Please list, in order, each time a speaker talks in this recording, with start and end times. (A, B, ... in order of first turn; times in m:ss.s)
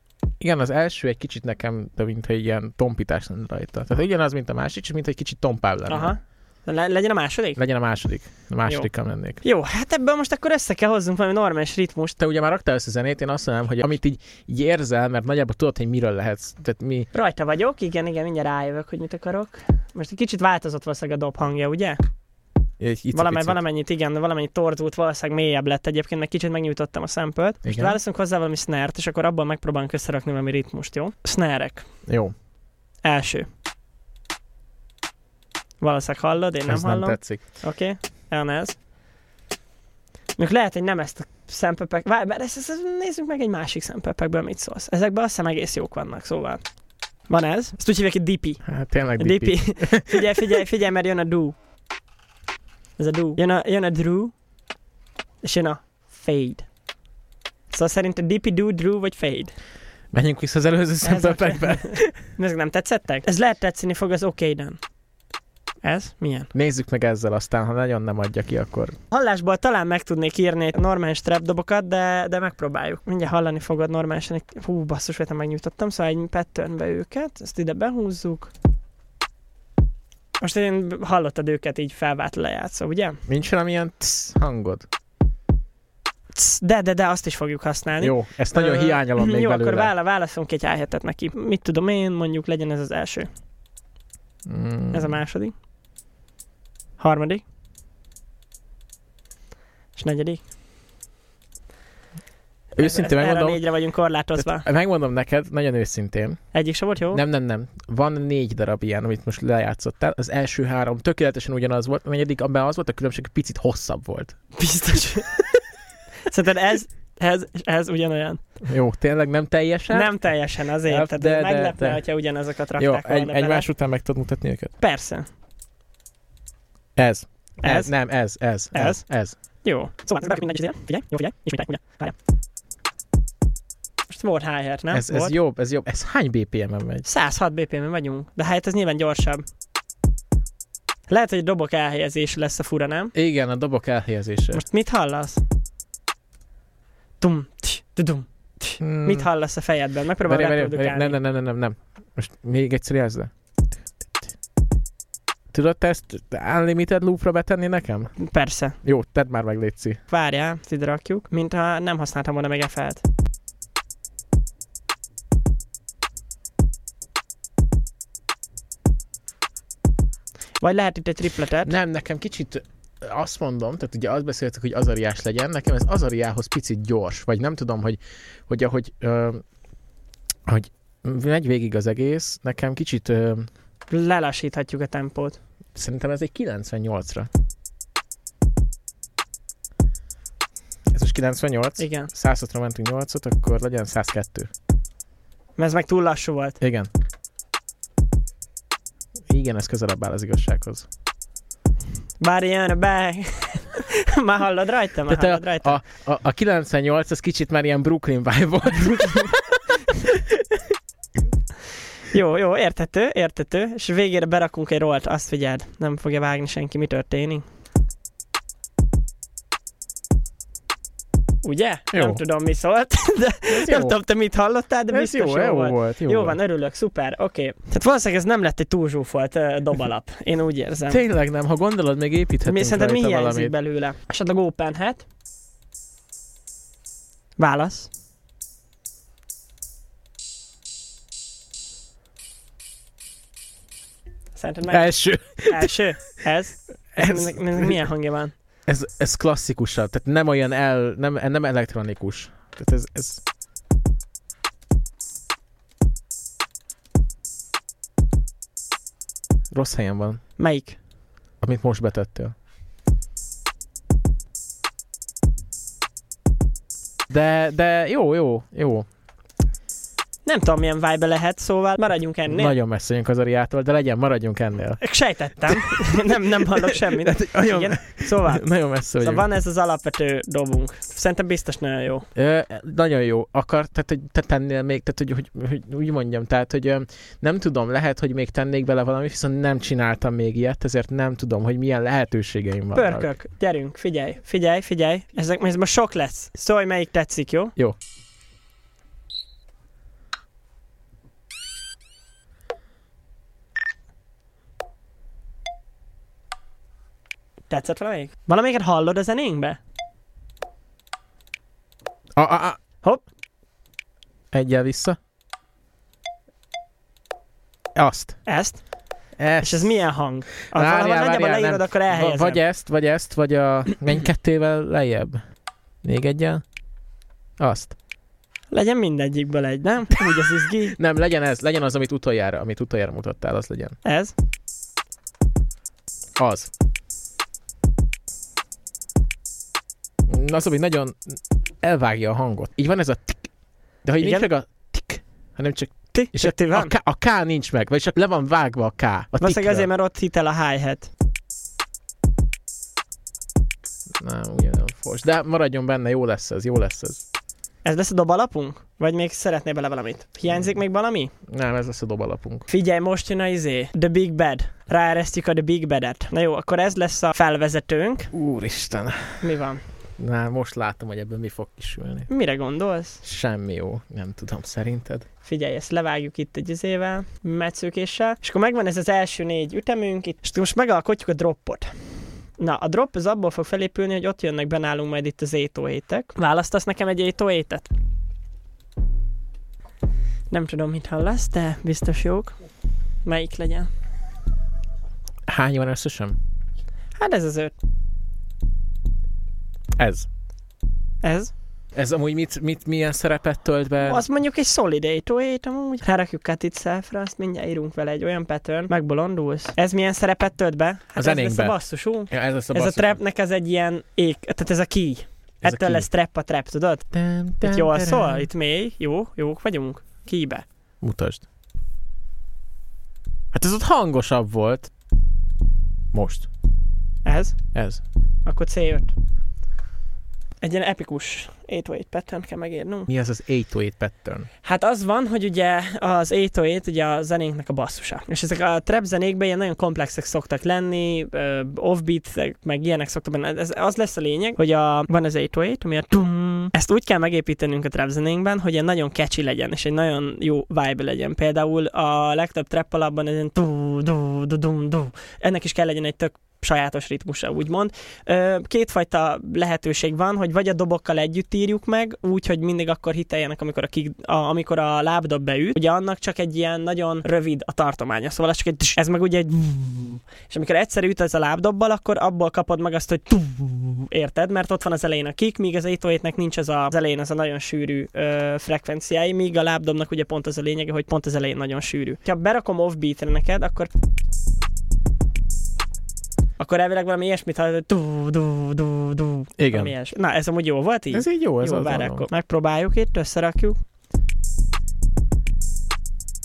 0:00.4-0:06.1 A
0:05.9-0:07.6 B
0:07.6-0:09.4 A
0:09.4-0:12.2 B
0:12.2-0:17.1 A
0:17.1-0:22.0 B
0:22.8-0:23.6 A
0:23.1-0:31.8 B
0:27.6-0:28.0 A
0:32.1-0:32.3 A
0:33.0-0:33.5 B
0:35.8-0:38.8 B
0:36.6-0:37.4 A
0:40.4-0:46.6 B
0:47.3-0:48.6 B
0:48.6-0:50.6 A
0:49.2-0:51.5 B
0:53.0-0:54.3 B
0:55.4-0:56.6 B
0:57.7-0:59.5 B
1:00.1-1:02.2 A
1:01.0-1:04.8 B
1:05.8-1:06.5 B
1:06.5-1:09.0 A
1:09.1-1:18.5 B
1:20.4-1:23.2 B
1:23.3-1:24.8 A
1:26.3-1:33.3 B
1:28.0-1:29.9 A
1:34.4-1:35.2 A
1:34.9-1:35.5 B
1:37.0-1:37.4 B
1:40.0-1:40.4 B
1:42.8-1:43.6 A
1:42.8-1:44.7 B
1:44.4-1:46.4 A
1:46.5-1:47.2 B
1:47.1-1:54.4 A
1:54.6-1:55.5 B
1:56.3-1:58.4 B
1:58.6-2:00.1 A
1:59.9-2:03.7 B
2:00.8-2:02.0 A
2:02.8-2:04.7 A
2:04.8-2:05.2 B
2:07.0-2:09.3 A
2:07.6-2:07.9 B
2:08.7-2:09.0 B
2:09.6-2:12.1 B
2:14.1-2:15.3 B
2:14.9-2:17.0 A
2:17.0-2:19.4 B
2:21.1-2:23.1 B
2:23.1-2:24.6 A
2:24.5-2:25.4 B
2:27.2-2:31.2 B
2:28.8-2:29.3 A
2:30.2-2:33.3 A
2:34.0-2:34.3 A
2:35.5-2:38.1 A
2:38.2-2:38.8 B
2:38.8-2:40.0 A
2:40.1-2:43.0 B
2:50.6-2:51.7 B
2:51.6-2:59.4 A
3:00.4-3:03.5 A
3:03.9-3:05.4 B
3:05.7-3:07.3 A
3:10.9-3:14.5 A
3:11.8-3:12.1 B
3:15.6-3:16.6 B
3:16.6-3:16.9 A
3:19.3-3:20.8 A
3:22.2-3:25.8 B
3:25.1-3:30.4 A
3:32.1-3:37.4 B
3:41.4-3:51.0 B
3:41.9-3:42.2 A
3:43.5-3:44.0 A
3:44.9-3:46.4 A
3:50.9-3:53.5 A
3:52.4-3:55.0 B
3:57.4-3:57.9 B
4:04.4-4:04.9 B
4:04.7-4:05.8 A
4:05.4-4:08.3 B
4:06.9-4:07.8 A
4:08.7-4:13.2 A
4:19.5-4:20.2 A
4:20.4-4:20.8 B
4:21.4-4:22.3 A
4:27.1-4:28.8 A
4:30.2-4:32.5 B
4:32.3-4:34.8 A
4:34.8-4:38.4 B
4:35.4-4:39.2 A
4:39.0-4:42.1 B
4:42.1-4:53.1 A
4:52.7-4:57.5 B
5:07.5-5:09.6 B
5:12.2-5:12.6 A
5:14.3-5:15.0 A
5:17.7-5:18.2 A
5:18.2-5:18.6 B
5:19.2-5:19.7 A
5:19.4-5:22.4 B
5:20.5-5:25.2 A
5:25.8-5:26.4 A
5:27.4-5:27.7 A
5:28.5-5:30.8 B
5:30.1-5:33.8 A
5:33.8-5:34.1 B
5:36.2-5:36.5 A
5:40.1-5:43.3 A
5:43.8-5:49.7 A
5:44.0-5:44.3 B
5:45.9-5:46.7 B
5:49.2-5:50.9 B
5:54.0-5:57.0 A
5:57.6-6:01.1 B
6:01.3-6:02.5 A
6:02.5-6:08.1 B
6:08.1-6:09.2 A
6:09.2-6:09.6 B
6:10.0-6:12.1 A
6:12.1-6:13.0 B
6:13.0-6:15.0 A
6:15.2-6:21.7 B
6:22.4-6:27.6 B
6:30.3-6:32.4 B
6:33.0-6:33.7 B
6:35.3-6:36.2 A
6:37.0-6:37.5 B
6:39.8-6:40.1 A
6:41.0-6:41.3 B
6:41.7-6:44.0 A
6:43.8-6:56.9 B
6:51.0-6:51.6 A
6:52.1-6:53.0 A
6:55.4-6:55.9 A
6:56.9-6:58.3 A
6:57.4-7:00.4 B
7:00.8-7:01.2 A
7:03.3-7:04.7 A
7:05.9-7:06.3 A
7:07.0-7:07.4 B
7:07.5-7:07.8 A
7:08.2-7:08.9 B
7:10.4-7:12.9 B
7:12.9-7:14.3 A
7:14.4-8:03.7 B
8:06.4-8:13.6 B
8:09.4-8:09.7 A
8:10.9-8:12.1 A